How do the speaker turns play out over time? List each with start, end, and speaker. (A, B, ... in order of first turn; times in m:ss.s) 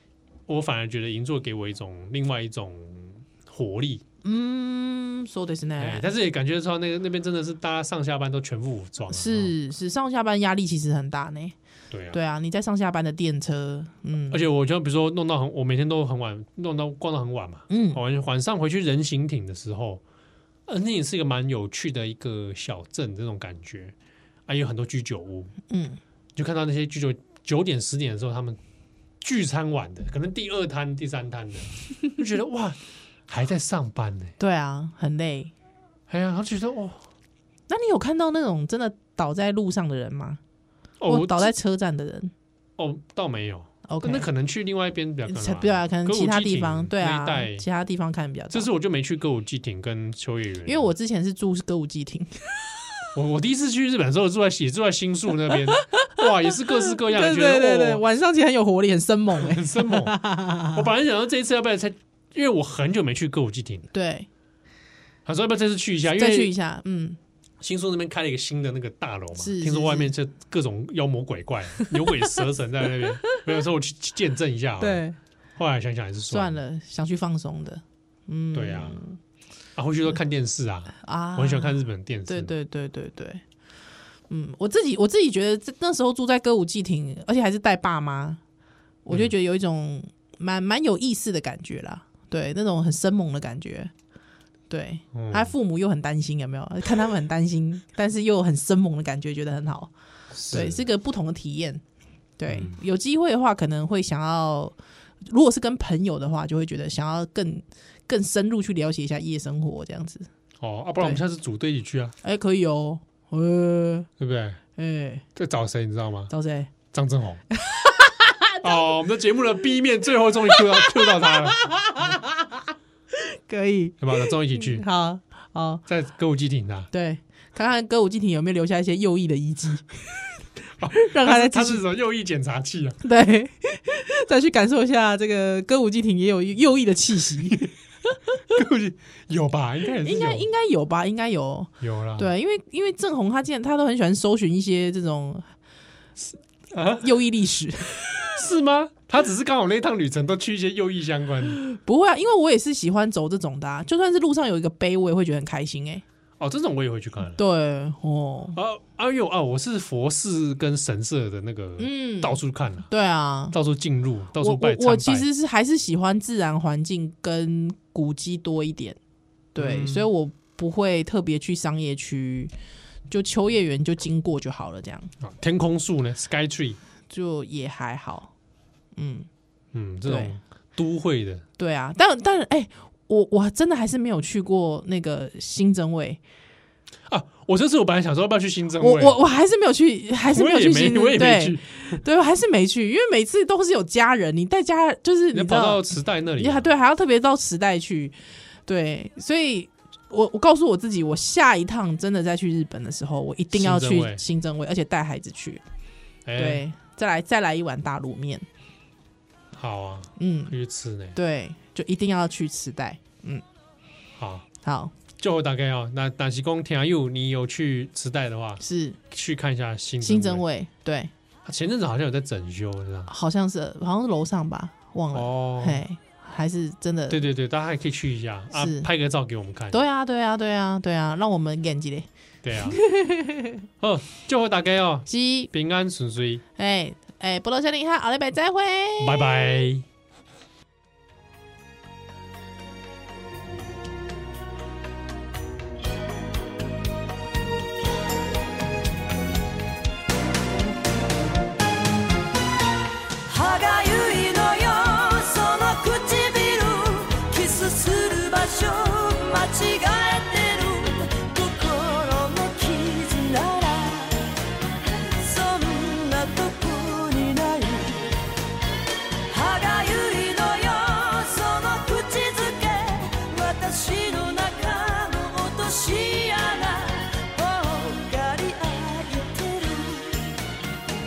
0:00.5-0:04.0 A
0:04.2-0:06.1 B
0:05.8-0:09.5 A
0:09.1-0:11.5 B
0:11.9-0:12.2 A
0:12.1-0:14.4 B
0:14.3-0:20.0 A
0:17.7-0:18.0 B
0:20.7-0:23.9 A
0:24.5-0:25.5 A
0:25.7-0:26.0 B
0:26.3-0:28.6 A
0:29.2-0:34.3 A
0:34.4-0:35.5 B
0:36.1-0:37.0 A
0:37.7-0:40.4 B
0:41.0-0:41.5 A
0:41.1-0:42.3 B
0:42.8-0:47.6 A
0:43.9-0:44.3 B
0:45.2-0:48.7 B
0:48.5-0:50.9 A
0:50.6-0:52.5 B
0:53.1-0:58.0 A
0:55.5-1:00.8 B
0:59.3-1:03.9 A
1:03.9-1:04.3 B
1:05.2-1:06.5 A
1:06.2-1:07.2 B
1:07.6-1:15.0 A
1:09.4-1:10.1 B
1:13.0-1:13.4 B
1:14.8-1:15.2 B
1:15.6-1:16.6 A
1:16.3-1:19.2 B
1:18.5-1:19.0 A
1:19.8-1:22.5 A
1:21.0-1:23.4 B
1:24.3-1:28.4 B
1:29.0-1:33.9 B
1:34.7-1:39.9 B
1:35.1-1:35.5 A
1:40.3-1:40.8 A
1:40.5-1:41.8 B
1:42.4-1:44.8 B
1:42.5-1:42.8 A
1:45.3-1:50.3 B
1:50.6-1:52.2 A
1:52.2-1:54.1 B
1:54.2-1:54.6 A
1:54.8-1:55.2 B
1:55.3-1:56.3 A
1:56.3-1:56.7 B
1:56.9-1:57.4 A
1:57.5-1:59.0 B
1:58.6-2:01.6 A
2:00.5-2:02.6 B
2:03.1-2:05.8 B
2:04.0-2:04.8 A
2:05.9-2:06.9 A
2:06.9-2:10.0 B
2:10.8-2:13.0 A
2:10.9-2:11.8 B
2:13.0-2:17.7 B
2:18.5-2:20.5 A
2:20.0-2:25.5 B
2:21.8-2:22.3 A
2:26.7-2:27.1 A
2:26.9-2:28.3 B
2:28.1-2:31.6 A
2:31.4-2:36.0 B
2:36.4-2:37.4 A
2:37.4-2:38.6 B
2:38.5-2:42.9 A
2:41.8-2:43.6 B
2:43.5-2:45.3 A
2:44.4-2:49.0 B
2:49.5-2:52.5 B
2:49.6-2:50.1 A
2:53.1-2:55.1 B
2:55.2-2:56.8 A
2:57.1-2:58.3 B
2:59.0-2:59.3 B
2:59.7-3:01.4 A
3:00.0-3:00.3 B
3:01.6-3:06.2 B
3:07.1-3:09.2 A
3:08.8-3:25.6 B
3:10.3-3:12.0 A
3:15.3-3:16.7 A
3:23.5-3:24.2 A
3:26.2-3:26.6 A
3:26.4-3:28.4 B
3:29.5-3:31.2 A
3:30.2-3:30.5 B
3:31.1-3:33.4 B
3:34.2-3:34.4 A
3:34.6-3:34.9 B
3:35.2-3:40.4 A
3:38.6-3:39.0 B
3:40.0-3:41.1 B
3:41.4-3:43.1 A
3:43.1-3:47.2 B
3:45.1-3:45.8 A
3:47.1-3:49.8 A
3:48.5-3:48.9 B
3:49.7-3:52.1 B
3:52.4-3:52.8 A
3:52.6-3:53.5 B
3:53.8-3:56.4 A
3:55.1-3:55.5 B
3:56.6-3:59.5 B
3:59.0-3:59.8 A
4:13.2-4:24.4 C
4:25.1-4:28.1 C
4:29.3-4:40.3 C